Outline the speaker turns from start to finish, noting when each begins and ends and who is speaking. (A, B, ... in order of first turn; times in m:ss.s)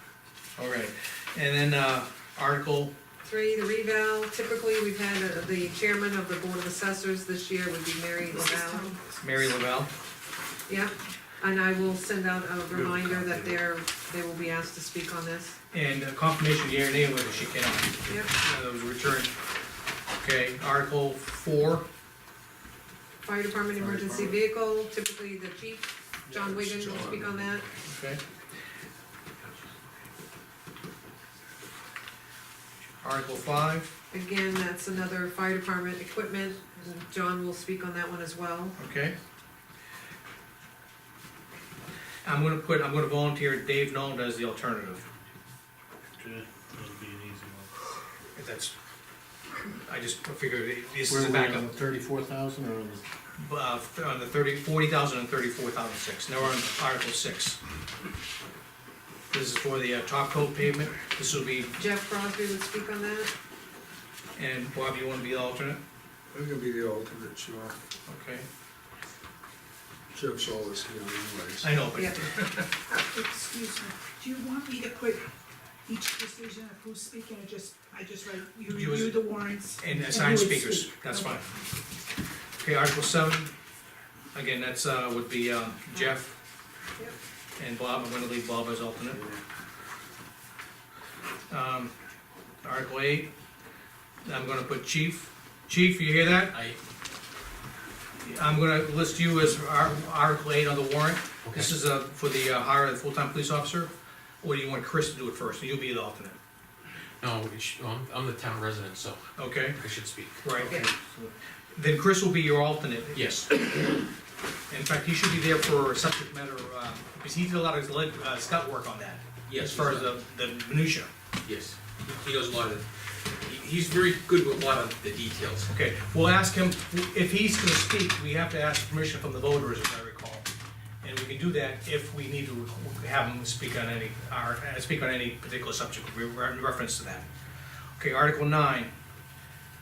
0:00.6-0:02.9 A
0:03.2-0:09.0 B
0:08.3-0:09.5 C
0:09.2-0:09.9 A
0:10.7-0:15.6 B
0:12.7-0:13.6 D
0:15.7-0:19.3 A
0:18.0-0:18.3 B
0:20.2-0:21.9 A
0:23.2-0:27.7 B
0:23.8-0:24.4 D
0:26.4-0:27.2 E
0:26.8-0:27.2 D
0:27.9-0:28.2 A
0:33.0-0:33.9 A
0:34.1-0:38.8 B
0:38.8-0:39.2 A
0:42.2-0:45.1 A
0:46.2-0:47.7 D
0:48.4-0:48.7 A
0:49.9-0:51.7 A
0:51.1-0:53.0 D
0:53.4-0:57.6 A
0:59.3-1:01.8 A
1:01.8-1:03.3 B
1:04.4-1:05.8 A
1:06.3-1:07.8 E
1:08.1-1:08.5 A
1:10.1-1:11.8 E
1:11.6-1:12.7 A
1:12.9-1:15.2 C
1:15.9-1:21.4 C
1:18.7-1:19.2 A
1:19.8-1:21.5 A
1:22.6-1:23.5 A
1:24.3-1:26.4 A
1:27.6-1:29.2 A
1:31.5-1:31.9 A
1:32.6-1:33.3 A
1:34.2-1:36.6 A
1:36.5-1:36.8 F
1:38.2-1:43.9 A
1:41.4-1:41.7 F
1:44.4-1:46.4 A
1:47.2-1:50.4 F
1:49.4-1:49.8 A
1:50.4-1:50.8 A
1:50.5-1:51.3 D
1:51.7-1:53.2 A
1:53.1-1:53.5 F
1:54.7-2:01.1 A
1:59.5-2:00.1 F
2:01.4-2:02.9 F
2:03.4-2:05.7 F
2:05.7-2:10.5 A
2:11.0-2:17.3 A
2:18.0-2:18.9 A